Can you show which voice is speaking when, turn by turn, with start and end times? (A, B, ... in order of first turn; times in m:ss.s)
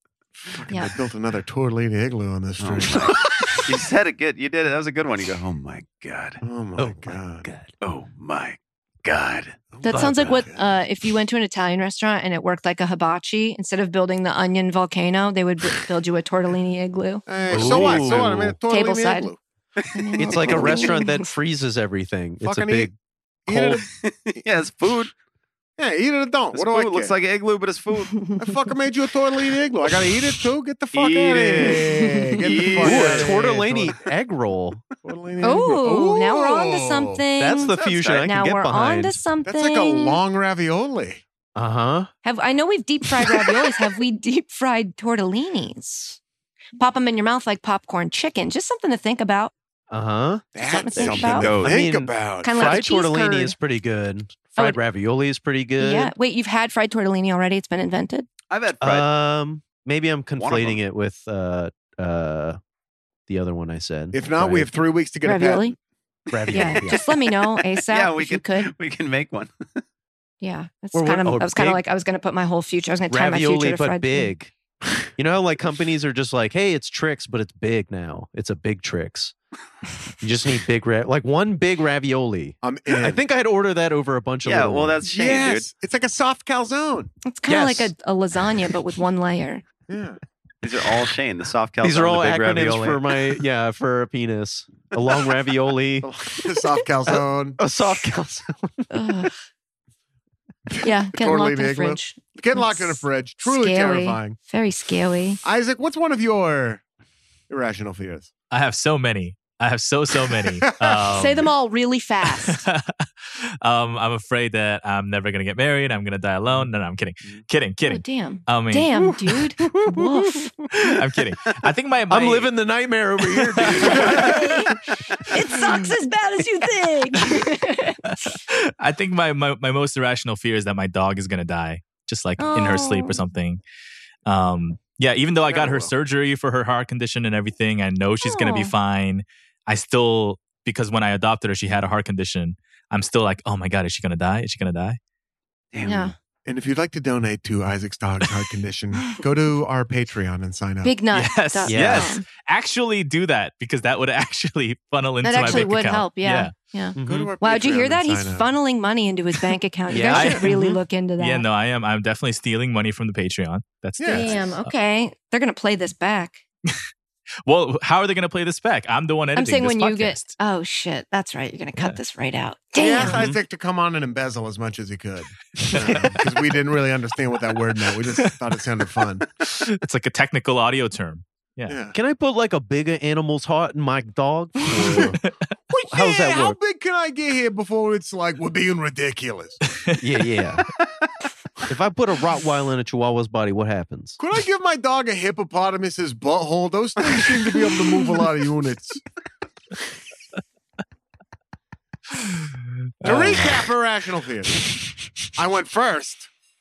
0:00.4-0:03.6 A
0:02.6-0:06.4 B
0:06.4-0:07.5 A
0:06.8-0:07.7 C
0:07.8-0:09.6 B
0:09.7-0:10.6 A
0:09.8-0:17.2 D
0:09.9-0:10.3 C
0:17.3-0:19.4 A
0:17.5-0:18.6 C
0:17.6-0:18.1 B
0:18.6-0:19.3 D
0:19.9-0:21.3 D
0:20.2-0:22.9 C
0:20.4-0:20.9 A
0:22.4-0:22.9 A
0:23.5-0:23.8 C
0:23.5-0:23.9 A
0:24.0-0:25.1 B
0:25.8-0:27.1 A
0:26.5-0:28.3 B
0:28.4-0:34.0 A
0:30.9-0:31.8 B
0:31.8-0:32.2 D
0:32.4-0:33.3 B
0:32.8-0:34.8 C
0:35.0-0:37.2 A
0:35.4-0:37.7 D
0:37.4-0:39.2 C
0:37.7-0:38.3 B
0:38.2-0:40.2 D
0:39.4-0:41.2 A
0:41.5-0:42.1 C
0:42.2-0:46.2 D
0:46.8-0:49.5 D
0:49.9-0:56.1 C
0:50.5-0:52.8 A
0:50.6-0:51.5 D
0:51.4-0:51.8 B
0:52.4-0:53.6 D
0:55.8-0:58.2 D
0:58.5-0:59.1 B
0:58.8-1:02.6 C
1:00.4-1:00.8 B
1:03.3-1:04.7 C
1:04.1-1:05.8 A
1:05.2-1:05.7 D
1:06.3-1:07.0 B
1:06.3-1:07.0 C
1:06.5-1:08.7 D
1:07.9-1:09.8 B
1:10.4-1:14.3 D
1:10.9-1:11.8 C
1:13.1-1:19.3 C
1:20.2-1:25.0 C
1:22.6-1:23.2 A
1:24.4-1:25.7 B
1:25.0-1:27.1 A
1:27.2-1:29.6 D
1:27.5-1:27.9 C
1:29.9-1:30.2 A
1:30.6-1:33.1 B
1:31.8-1:36.1 C
1:36.0-1:37.6 A
1:37.0-1:39.1 C
1:38.9-1:39.3 D
1:40.8-1:45.4 D
1:41.1-1:44.4 A
1:45.4-1:46.8 A
1:47.5-1:48.3 A
1:48.5-1:51.5 E
1:50.3-1:51.2 A
1:51.1-1:52.6 D
1:52.4-1:58.9 E
1:57.8-2:00.5 D
1:59.0-2:00.3 C
2:00.9-2:02.5 E
2:02.1-2:04.7 C
2:03.6-2:03.9 E
2:03.8-2:04.8 D
2:05.3-2:08.3 D
2:08.2-2:13.6 E
2:12.4-2:13.2 D
2:14.2-2:25.0 E
2:15.5-2:15.9 A
2:18.2-2:18.7 D
2:25.7-2:26.1 B
2:25.8-2:26.1 D
2:26.4-2:30.9 A
2:30.8-2:32.2 D
2:31.1-2:36.5 E
2:31.7-2:32.1 C
2:35.2-2:41.4 D
2:37.0-2:37.3 C
2:37.0-2:38.5 A
2:39.9-2:40.8 C
2:40.0-2:40.6 E
2:41.2-2:44.7 E
2:44.0-2:44.3 A
2:44.1-2:46.4 D
2:47.4-2:50.3 E
2:49.3-2:53.2 D
2:52.8-2:59.2 A
2:53.0-2:53.4 C
2:55.6-2:56.1 C
2:59.4-3:01.8 E
3:01.7-3:01.9 A
3:01.9-3:05.2 C
3:04.7-3:05.1 A
3:05.7-3:09.6 A
3:05.9-3:06.6 C
3:09.7-3:10.0 E
3:10.0-3:10.6 C
3:11.7-3:14.2 C
3:14.2-3:19.0 A
3:22.2-3:22.4 E
3:23.0-3:23.6 E
3:23.0-3:24.7 A
3:25.3-3:26.3 A